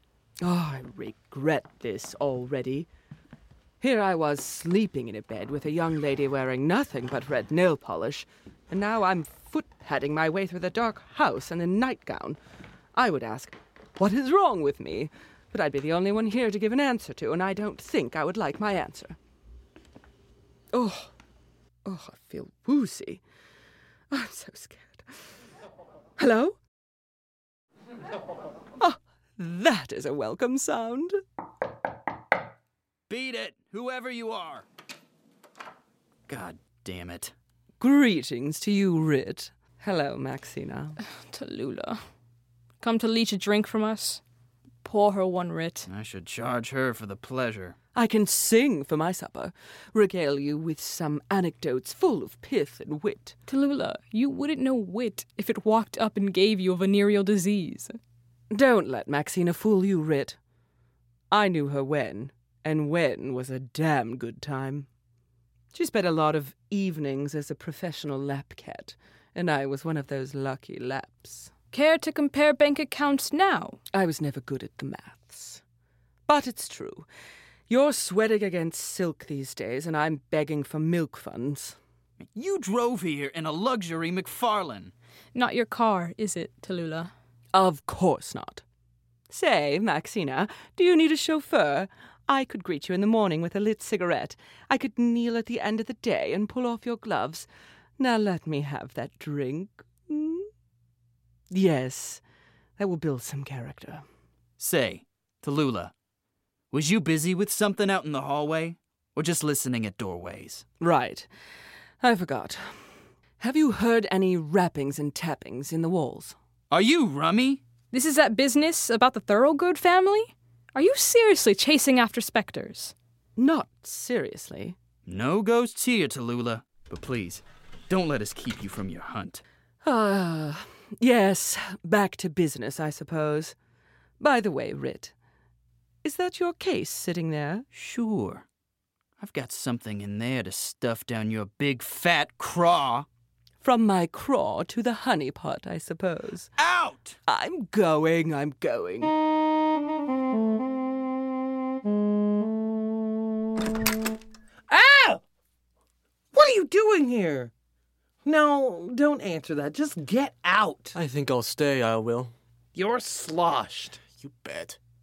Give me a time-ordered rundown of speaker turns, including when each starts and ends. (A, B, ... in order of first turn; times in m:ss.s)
0:00.4-0:02.9 A
0:03.8-0:12.4 A
0:12.9-0:19.2 A
0:20.7-0:21.1 A
0:21.8-0:23.2 A
0:24.1-0:25.1 A
0:26.2-0:26.5 A
0:28.8-0:31.2 A
0:33.1-0:34.6 B
0:36.3-0:37.3 B
0:37.8-0:41.0 A
0:41.3-0:42.0 C
0:42.8-0:44.2 C
0:44.8-0:45.9 C
0:45.9-0:47.7 B
0:47.9-0:53.4 A
0:53.5-0:57.9 C
0:58.5-1:00.4 A
1:01.3-1:04.9 A
1:05.7-1:11.5 A
1:11.7-1:13.8 C
1:13.9-1:15.6 A
1:16.3-1:17.1 A
1:17.7-1:21.8 A
1:22.2-1:24.9 B
1:25.3-1:27.1 C
1:27.5-1:28.6 A
1:29.3-1:37.5 A
1:38.0-1:40.5 A
1:41.5-1:42.2 A
1:42.8-1:44.0 A
1:44.6-1:45.9 B
1:46.7-1:50.6 B
1:50.8-1:51.3 A
1:52.0-1:52.8 A
1:53.4-1:56.4 A
1:56.7-1:57.6 B
1:57.9-2:02.9 C
2:03.4-2:04.8 A
2:05.1-2:09.4 B
2:09.8-2:13.5 A
2:14.2-2:15.1 A
2:16.0-2:17.6 A
2:17.7-2:18.4 B
2:19.2-2:23.0 B
2:23.6-2:26.5 A
2:26.6-2:27.2 B
2:27.3-2:29.1 A
2:34.7-2:35.2 D
2:36.3-2:37.5 D
2:38.2-2:40.9 D
2:40.9-2:42.3 E
2:42.7-2:44.0 D
2:44.1-2:44.8 E